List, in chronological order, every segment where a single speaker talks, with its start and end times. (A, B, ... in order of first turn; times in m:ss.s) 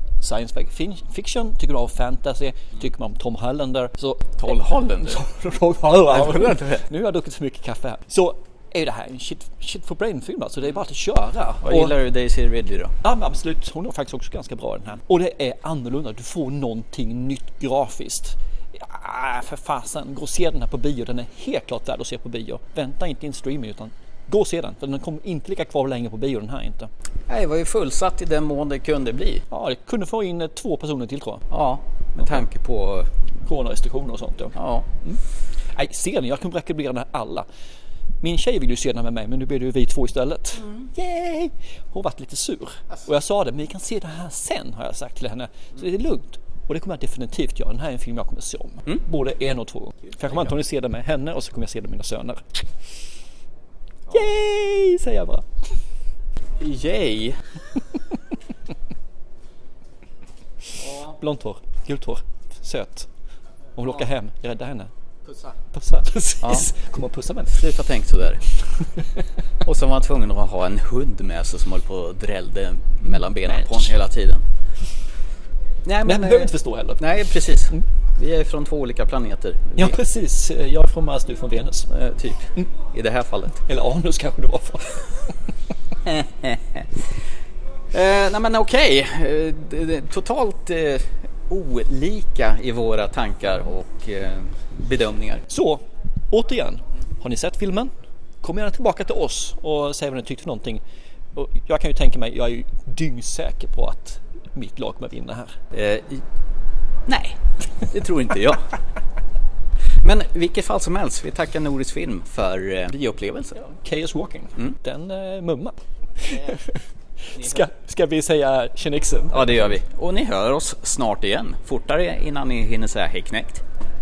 0:00.2-0:12.0 A
0:04.4-0:06.8 B
0:11.6-0:12.9 B
0:13.0-0:26.9 A
0:27.3-0:29.4 B
0:29.5-0:31.5 A
0:31.5-0:33.1 B
0:33.5-0:35.2 A
0:34.6-0:34.9 B
0:35.7-0:37.5 A
0:38.2-0:52.4 A
0:50.2-0:50.5 B
0:54.1-0:55.5 A
0:56.6-0:57.4 B
1:00.7-1:01.2 B
1:01.0-1:03.1 A
1:03.8-1:04.9 A
1:05.7-1:07.6 A
1:06.4-1:06.7 B
1:07.5-1:08.4 B
1:09.6-1:14.4 B
1:13.4-1:13.9 A
1:15.8-1:20.0 B
1:16.0-1:17.1 A
1:19.8-1:21.9 A
1:21.9-1:23.6 B
1:23.7-1:25.3 A
1:26.0-1:27.1 B
1:27.9-1:35.5 B
1:35.5-1:37.9 A
1:38.4-1:40.8 A
1:41.4-1:45.6 A
1:45.7-1:46.2 B
1:47.1-1:48.8 B
1:50.0-1:53.6 B
1:53.6-1:59.7 A
1:56.2-1:56.6 B
1:57.4-1:57.7 B
1:59.3-2:03.6 B